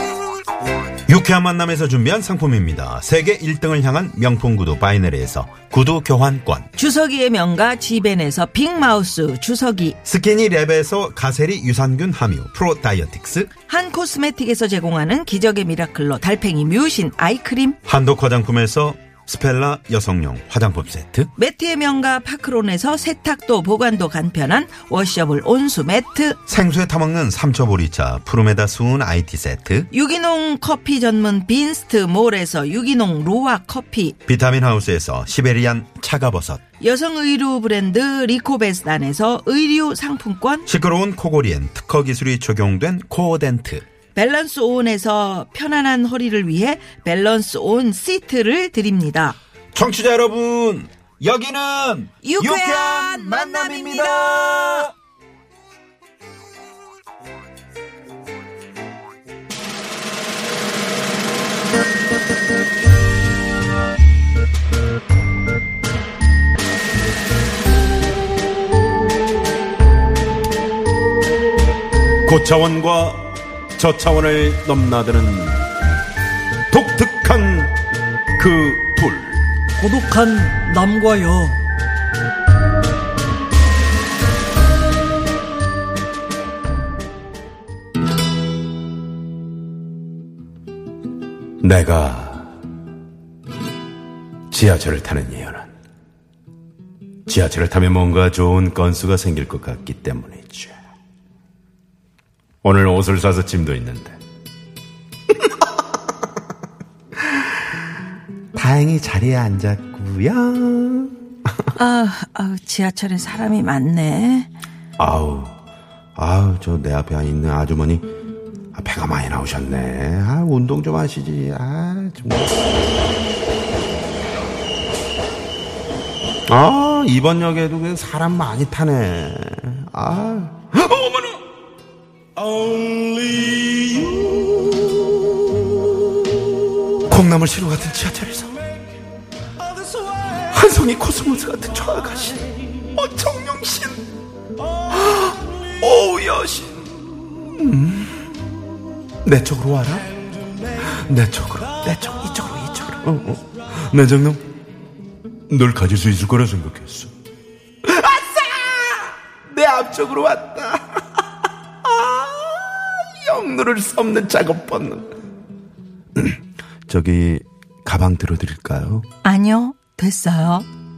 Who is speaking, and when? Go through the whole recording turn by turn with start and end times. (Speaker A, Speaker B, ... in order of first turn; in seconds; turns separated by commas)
Speaker A: 1.1-6.7, Speaker B: 6.8-10.0, Speaker A: 10.0-13.5, Speaker B: 13.7-17.8, Speaker A: 17.8-21.3, Speaker B: 21.4-26.4, Speaker A: 26.5-29.9, Speaker B: 29.9-34.2, Speaker A: 34.2-36.6, Speaker B: 36.8-40.7, Speaker A: 40.7-43.8, Speaker B: 44.1-49.4, Speaker A: 49.7-54.9, Speaker B: 52.2-54.9, Speaker A: 72.2-75.7, Speaker A: 76.7-77.7, Speaker A: 78.3-79.4, Speaker B: 79.8-81.6, Speaker A: 91.6-92.5, Speaker A: 94.5-95.7, Speaker A: 97.3-100.7, Speaker A: 102.6-104.2, Speaker A: 108.5-111.2, Speaker B: 111.8-114.5, Speaker A: 115.0-115.5, Speaker A: 116.2-118.1, Speaker A: 118.7-122.6, Speaker A: 126.5-131.4, Speaker A: 132.6-134.7, Speaker A: 137.0-138.6, Speaker A: 140.4-144.1, Speaker A: 144.9-148.4, Speaker A: 149.2-150.1, Speaker A: 150.8-154.4, Speaker A: 155.5-157.1, Speaker A: 157.8-161.2, Speaker A: 161.8-165.1, Speaker A: 166.1-169.1, Speaker B: 169.2-170.7